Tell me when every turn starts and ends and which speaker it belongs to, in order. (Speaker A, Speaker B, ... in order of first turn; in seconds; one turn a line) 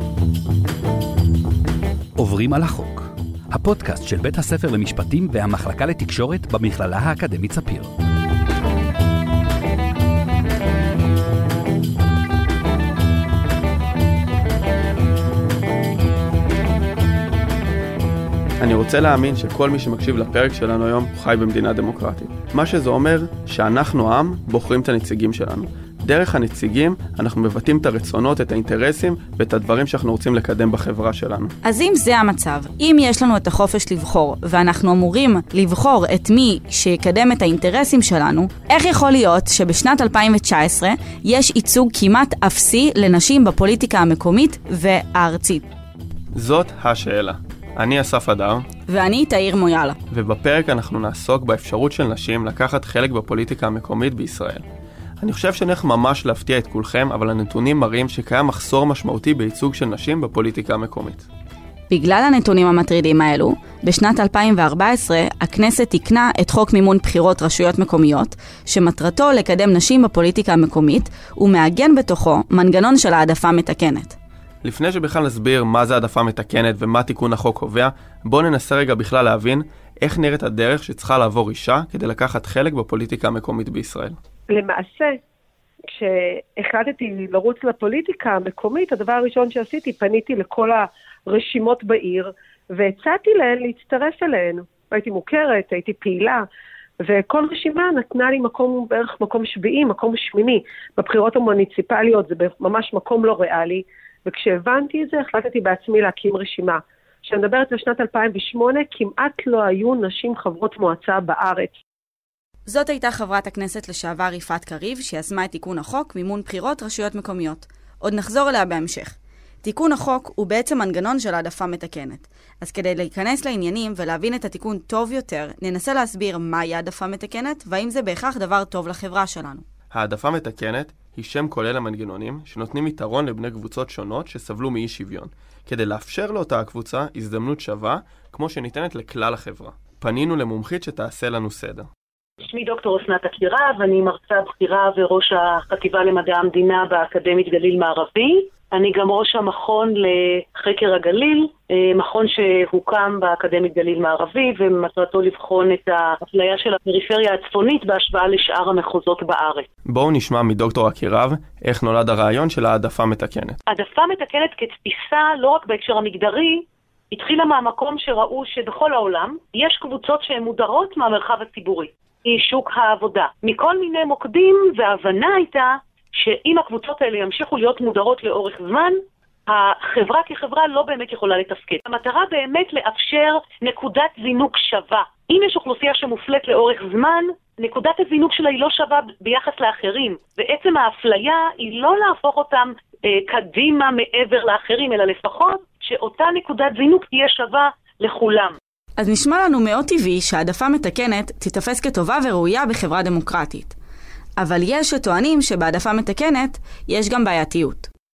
Speaker A: 2.2-7.9
Speaker B: 18.6-31.5
Speaker C: 31.6-45.7
Speaker B: 46.3-48.6
Speaker C: 48.9-50.0
Speaker B: 50.1-54.6
Speaker B: 55.2-61.3
Speaker C: 61.9-74.2
Speaker B: 74.6-84.2
Speaker D: 84.5-85.2
Speaker D: 85.9-96.5
Speaker D: 97.0-111.8
Speaker C: 112.7-129.6
Speaker B: 129.9-141.9
Speaker E: 142.4-159.7
Speaker B: 159.9-163.6
Speaker E: 163.7-198.6
Speaker C: 199.0-203.8
Speaker C: 204.4-207.9